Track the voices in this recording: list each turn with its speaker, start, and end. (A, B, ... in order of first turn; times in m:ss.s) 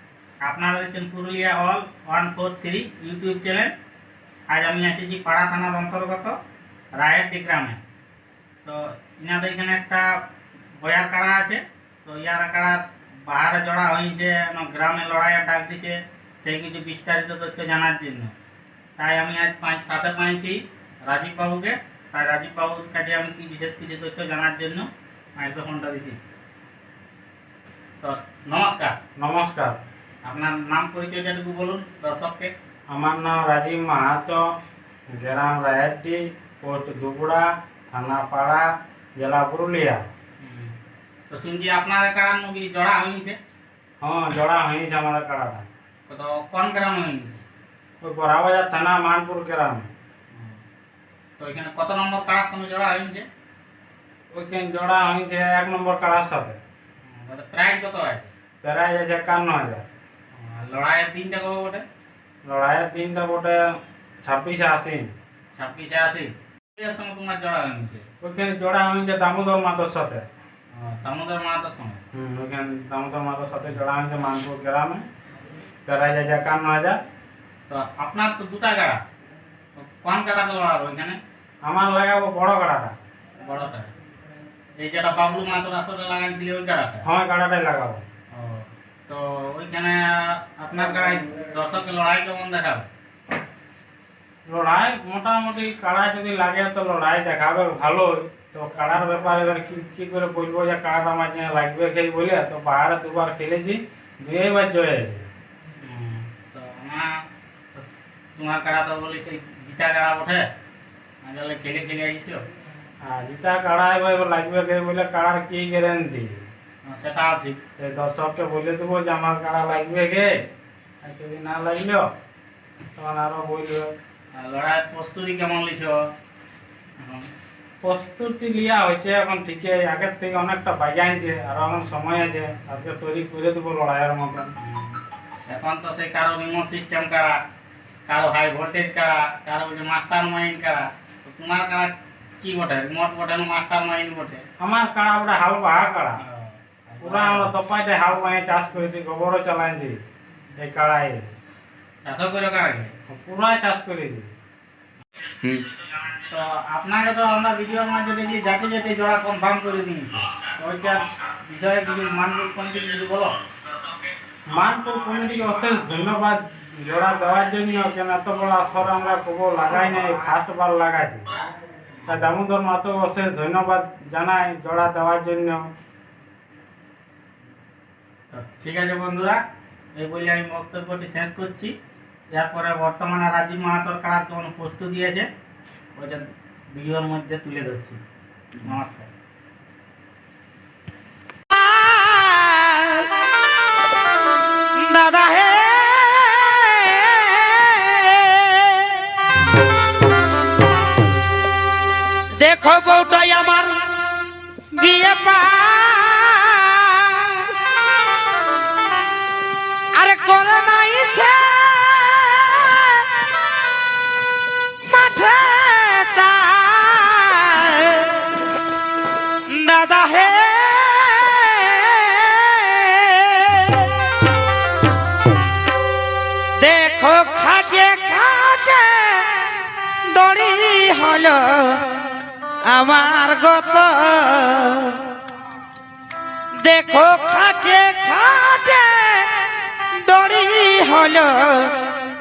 0:00.4-0:03.7 A
0:04.5-0:06.3 A
0:07.0-0:07.8 A
0:08.6-0:10.2 A
0:10.8-0:18.3 A
0:19.0-0:26.2 A
0:28.0-0:29.0 A
0:29.2-0:29.8 B
0:30.2-0:32.5 A
0:32.9-0:34.4 B
0:35.1-0:38.7 B
0:39.2-0:40.0 B
0:40.4-0:40.7 A
0:41.3-0:43.4 A
0:44.0-0:45.7 B
0:46.1-0:47.4 A
0:48.0-0:49.9 B
0:50.3-0:50.6 A
0:51.4-0:53.3 A
0:54.3-0:56.6 B
0:57.0-0:58.3 A
0:58.6-0:59.8 B
1:00.3-1:01.8 A
1:02.4-1:03.6 B
1:04.2-1:05.1 B
1:05.5-1:08.1 A
1:08.2-1:10.2 B
1:10.8-1:12.0 A
1:12.1-1:15.0 B
1:15.9-1:17.0 B
1:17.7-1:19.0 A
1:19.8-1:21.2 A
1:21.6-1:23.0 B
1:23.4-1:23.9 A
1:24.8-1:27.1 A
1:27.0-1:28.0 B
1:28.3-1:32.9 A
1:34.5-1:45.3 B
1:45.8-1:47.2 A
1:48.4-1:50.4 A
1:51.2-1:52.4 A
1:53.0-1:56.3 B
1:56.8-1:57.6 A
1:57.8-2:00.4 B
2:01.0-2:02.1 B
2:03.0-2:03.9 B
2:04.3-2:06.0 A
2:07.0-2:07.3 A
2:07.8-2:14.5 B
2:14.6-2:17.4 A
2:18.1-2:24.4 A
2:24.6-2:26.2 B
2:26.2-2:27.5 A
2:27.0-2:30.0 B
2:30.6-2:31.3 B
2:32.0-2:32.9 A
2:33.1-2:34.3 B
2:36.2-2:43.3 A
2:44.5-2:51.3 B
2:52.1-2:55.7 B
2:58.3-2:59.4 A
3:00.0-3:01.7 A
3:02.3-3:05.3 A
3:05.9-3:08.0 A
3:08.6-3:09.1 A
3:11.5-3:13.4 C
3:14.8-3:19.1 C
3:22.4-3:23.8 C
3:24.7-3:27.7 C
3:29.9-3:33.1 C
3:34.8-3:38.3 C
3:39.5-3:44.3 C
3:46.6-3:49.3 C
3:50.0-3:51.8 C
3:52.6-3:55.0 C
3:56.5-4:01.8 C